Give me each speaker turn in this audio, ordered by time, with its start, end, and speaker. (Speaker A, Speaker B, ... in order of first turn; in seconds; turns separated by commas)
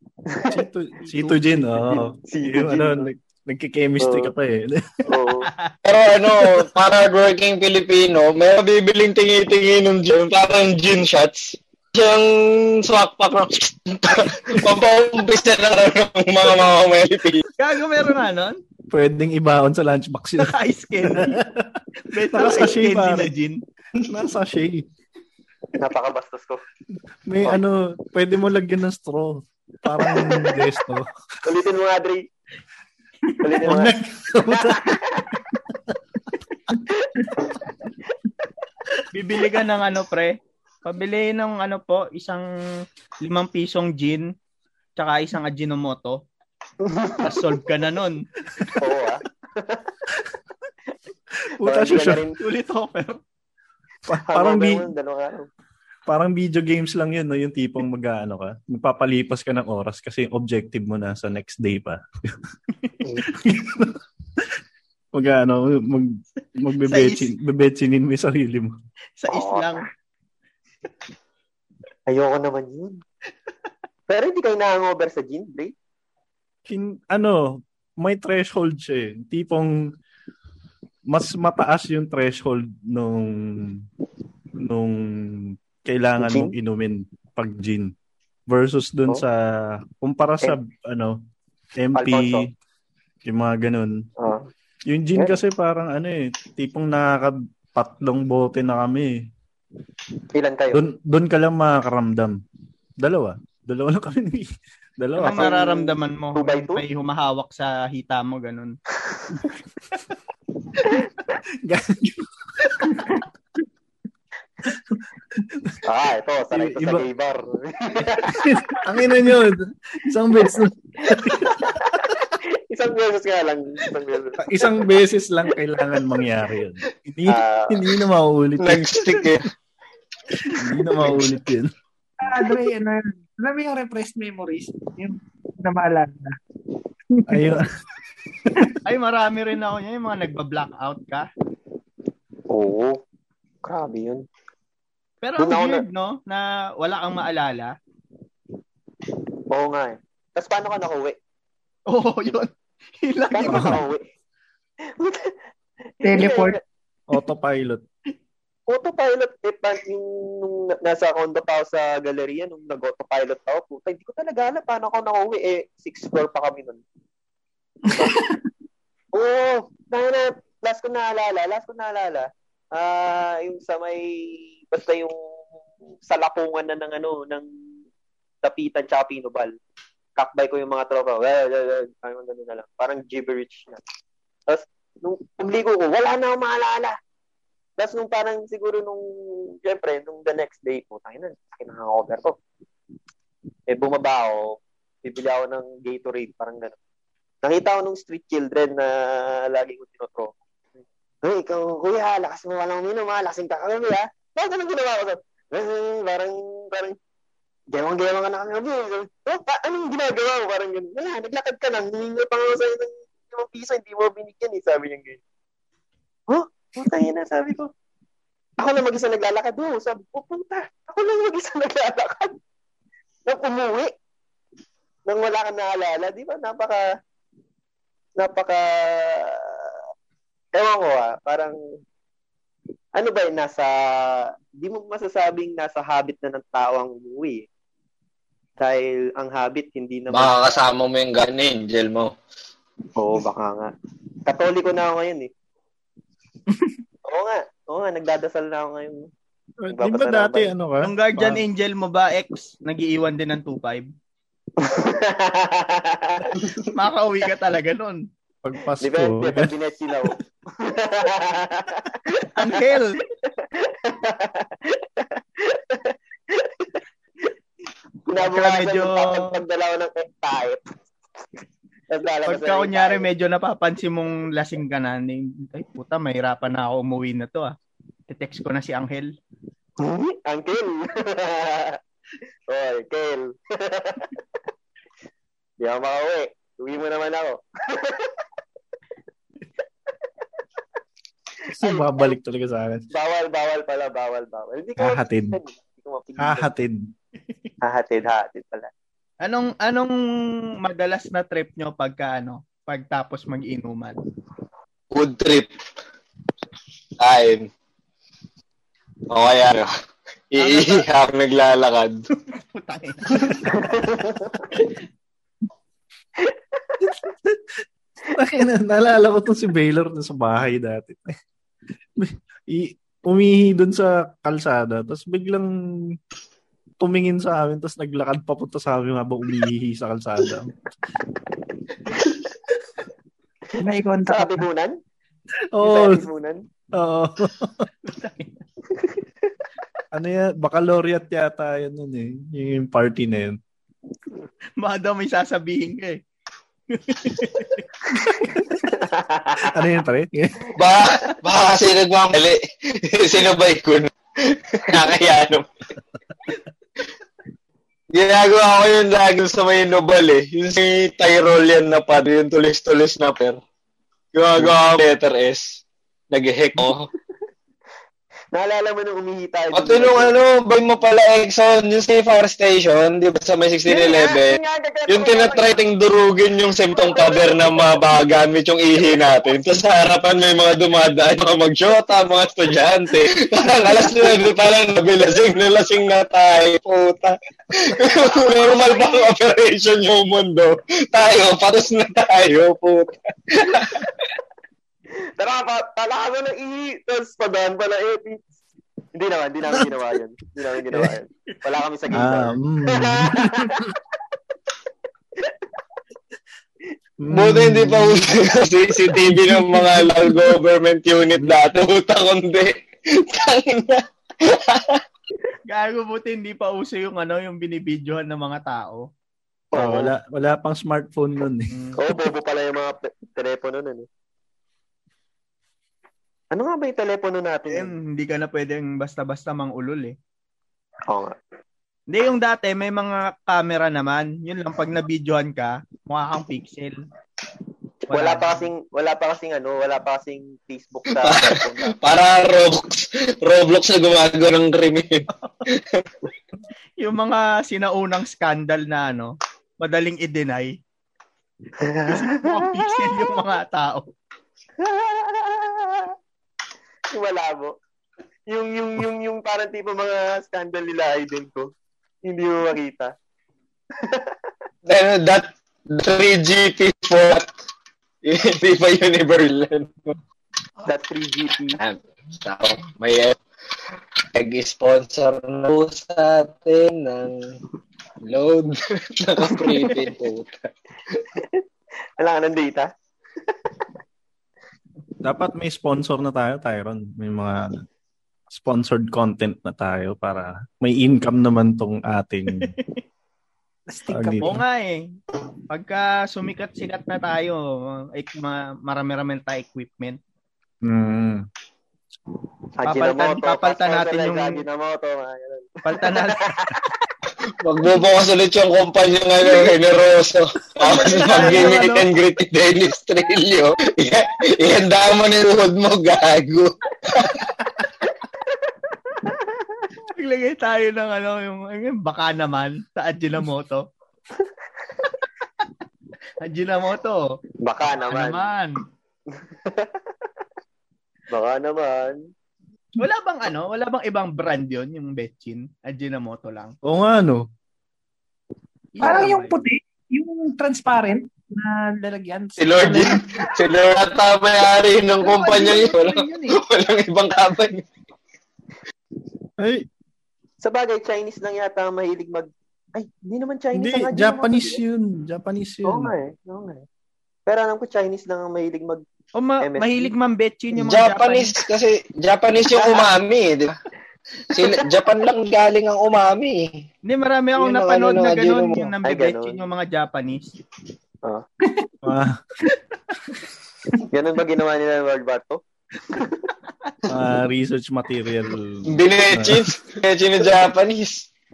Speaker A: 0.3-0.6, Speaker B: 0.5-5.0, Speaker C: 1.1-1.4, Speaker A: 1.9-3.1, Speaker A: 4.0-4.3, Speaker A: 5.1-5.5, Speaker C: 5.5-5.7, Speaker D: 5.8-17.5, Speaker C: 17.6-18.6, Speaker B: 18.9-21.7, Speaker C: 20.4-21.4, Speaker C: 22.1-23.6, Speaker B: 22.3-23.3, Speaker B: 24.0-24.9, Speaker A: 25.8-26.6, Speaker B: 27.3-31.1, Speaker A: 30.0-30.6, Speaker A: 31.4-32.3, Speaker A: 33.4-34.0, Speaker B: 33.6-35.0, Speaker A: 34.5-35.4, Speaker A: 36.9-37.4, Speaker C: 39.1-42.5, Speaker C: 43.2-44.3, Speaker C: 45.0-46.2, Speaker A: 46.8-47.4, Speaker C: 47.2-48.8, Speaker A: 48.8-49.9, Speaker B: 51.6-52.2, Speaker A: 51.6-52.4, Speaker C: 52.4-53.2, Speaker B: 54.1-54.9, Speaker A: 54.3-55.5, Speaker B: 56.1-62.0, Speaker B: 63.2-64.5, Speaker B: 65.1-68.8, Speaker C: 66.8-67.3, Speaker C: 69.2-69.8, Speaker A: 69.3-69.8, Speaker A: 72.1-73.0, Speaker A: 74.1-75.7, Speaker B: 76.7-79.7, Speaker B: 81.1-83.9, Speaker B: 84.6-87.9, Speaker A: 86.2-86.5, Speaker B: 88.5-91.2, Speaker B: 91.8-92.5, Speaker A: 92.0-92.5, Speaker B: 93.2-94.0, Speaker A: 94.2-94.5, Speaker B: 94.9-99.2, Speaker A: 100.3-100.8, Speaker B: 100.7-102.4, Speaker B: 103.0-105.5, Speaker C: 105.2-108.8, Speaker A: 105.3-106.8, Speaker B: 111.7-113.0, Speaker B: 115.5-115.8, Speaker A: 115.8-118.6, Speaker B: 116.5-117.1, Speaker B: 118.3-121.6, Speaker A: 121.4-124.4, Speaker B: 124.4-129.0, Speaker A: 127.3-127.9, Speaker D: 128.6-129.5, Speaker B: 130.5-131.7, Speaker E: 132.2-136.3, Speaker E: 137.2-137.5, Speaker B: 137.3-137.7, Speaker C: 138.8-141.3, Speaker A: 142.5-143.0, Speaker A: 143.6-144.2, Speaker C: 145.2-147.7, Speaker A: 145.4-145.8, Speaker A: 149.5-151.2, Speaker C: 151.9-152.5, Speaker C: 153.0-153.8, Speaker A: 153.3-154.0, Speaker B: 153.5-153.8, Speaker A: 155.0-155.4, Speaker E: 156.0-156.6, Speaker A: 156.1-156.6, Speaker B: 157.1-157.8, Speaker A: 158.7-166.8, Speaker E: 167.8-168.4, Speaker A: 169.1-175.2, Speaker A: 176.1-177.5, Speaker A: 178.4-179.5, Speaker A: 180.2-183.8, Speaker A: 184.5-187.0, Speaker A: 187.8-192.4, Speaker A: 193.7-196.8, Speaker A: 197.4-207.0, Speaker A: 207.7-215.2, Speaker A: 216.3-217.7, Speaker A: 218.6-222.4, Speaker A: 223.3-223.9, Speaker A: 225.1-226.8, Speaker A: 228.2-229.8, Speaker A: 230.6-231.6, Speaker A: 233.0-237.4, Speaker A: 238.6-240.6, Speaker D: 240.1-242.1, Speaker A: 243.0-243.7, Speaker A: 244.3-245.3, Speaker A: 247.1-249.1, Speaker B: 249.6-251.4, Speaker A: 249.7-250.5, Speaker C: 250.8-253.9, Speaker A: 254.6-256.3, Speaker C: 256.7-258.0, Speaker B: 258.4-259.5, Speaker A: 258.8-262.5, Speaker C: 262.4-263.0, Speaker A: 263.4-266.7, Speaker A: 268.1-270.7, Speaker C: 268.2-269.4, Speaker A: 271.9-273.1, Speaker C: 272.3-277.6, Speaker C: 278.1-279.1, Speaker A: 279.8-281.8, Speaker A: 282.5-284.2, Speaker A: 285.6-288.1, Speaker B: 291.5-292.9, Speaker A: 291.6-292.2, Speaker A: 292.9-296.5, Speaker B: 294.8-295.4, Speaker B: 296.2-296.8, Speaker A: 297.6-298.7, Speaker C: 299.2-304.0, Speaker D: 304.9-305.5, Speaker D: 307.0-307.5, Speaker D: 309.1-309.7, Speaker D: 310.3-312.0, Speaker C: 310.4-310.9, Speaker C: 312.3-313.5, Speaker A: 313.5-314.5, Speaker B: 316.8-321.1, Speaker B: 322.0-326.0, Speaker B: 326.8-330.5, Speaker E: 333.6-334.5, Speaker A: 334.1-334.8, Speaker B: 335.5-336.1, Speaker A: 335.6-336.4, Speaker B: 336.8-337.7, Speaker C: 337.9-338.4, Speaker A: 338.7-339.0, Speaker B: 339.9-343.4, Speaker C: 344.6-346.0, Speaker C: 346.7-347.7, Speaker B: 348.2-348.6, Speaker A: 348.7-349.6, Speaker B: 349.4-350.5, Speaker D: 350.6-355.5, Speaker D: 357.9-363.4, Speaker D: 364.1-365.6, Speaker D: 366.1-366.9, Speaker A: 368.3-370.1, Speaker D: 369.5-393.9, Speaker A: 373.7-375.6, Speaker A: 376.7-377.6, Speaker A: 387.9-389.1, Speaker A: 395.2-398.3, Speaker A: 398.9-403.8, Speaker B: 401.9-403.5, Speaker B: 407.0-408.1, Speaker D: 407.1-414.8, Speaker B: 409.1-409.9, Speaker C: 415.5-418.9, Speaker A: 419.5-419.9, Speaker B: 419.6-421.5, Speaker C: 421.5-421.8, Speaker A: 421.8-423.9, Speaker A: 426.3-427.7, Speaker C: 427.5-430.0, Speaker A: 430.9-431.2, Speaker C: 431.9-436.8, Speaker C: 437.9-438.5, Speaker A: 437.9-441.8, Speaker D: 441.0-445.9, Speaker C: 445.2-445.4, Speaker C: 446.8-450.5, Speaker A: 451.6-452.8, Speaker C: 451.9-453.9, Speaker A: 454.6-455.9, Speaker A: 456.9-457.6, Speaker A: 458.3-461.5, Speaker A: 462.0-462.9, Speaker A: 463.8-464.2, Speaker D: 464.7-467.3, Speaker D: 468.1-470.0, Speaker A: 470.6-471.6, Speaker D: 471.6-473.2, Speaker D: 474.1-477.4, Speaker D: 478.0-481.0, Speaker A: 481.1-481.4, Speaker A: 482.0-482.7, Speaker B: 485.0-487.6, Speaker B: 488.3-492.5, Speaker C: 492.4-492.8, Speaker E: 493.7-494.3, Speaker B: 493.9-494.4, Speaker C: 494.2-495.0, Speaker C: 495.5-500.0, Speaker B: 500.6-501.3, Speaker A: 502.6-506.6, Speaker C: 502.7-504.4, Speaker C: 505.6-506.3, Speaker D: 507.4-517.2, Speaker C: 510.6-511.9, Speaker C: 519.9-523.6, Speaker C: 526.2-527.1, Speaker A: 527.4-528.3, Speaker C: 527.7-528.5, Speaker A: 529.2-529.8, Speaker A: 531.1-532.0, Speaker C: 532.8-536.5, Speaker B: 536.6-537.2, Speaker C: 538.8-539.4, Speaker E: 538.8-543.3, Speaker D: 542.4-547.7, Speaker E: 545.0-546.4, Speaker B: 549.4-549.7, Speaker A: 550.4-554.6, Speaker B: 553.5-555.9, Speaker A: 555.7-556.6, Speaker A: 557.3-558.8, Speaker C: 559.1-561.3, Speaker A: 559.4-559.9, Speaker D: 560.6-563.6, Speaker C: 562.6-562.9, Speaker D: 564.3-566.6, Speaker C: 566.9-570.4, Speaker D: 567.4-568.7, Speaker A: 568.9-569.4, Speaker B: 571.8-572.2, Speaker A: 573.9-576.3, Speaker B: 576.9-579.5, Speaker D: 578.7-581.1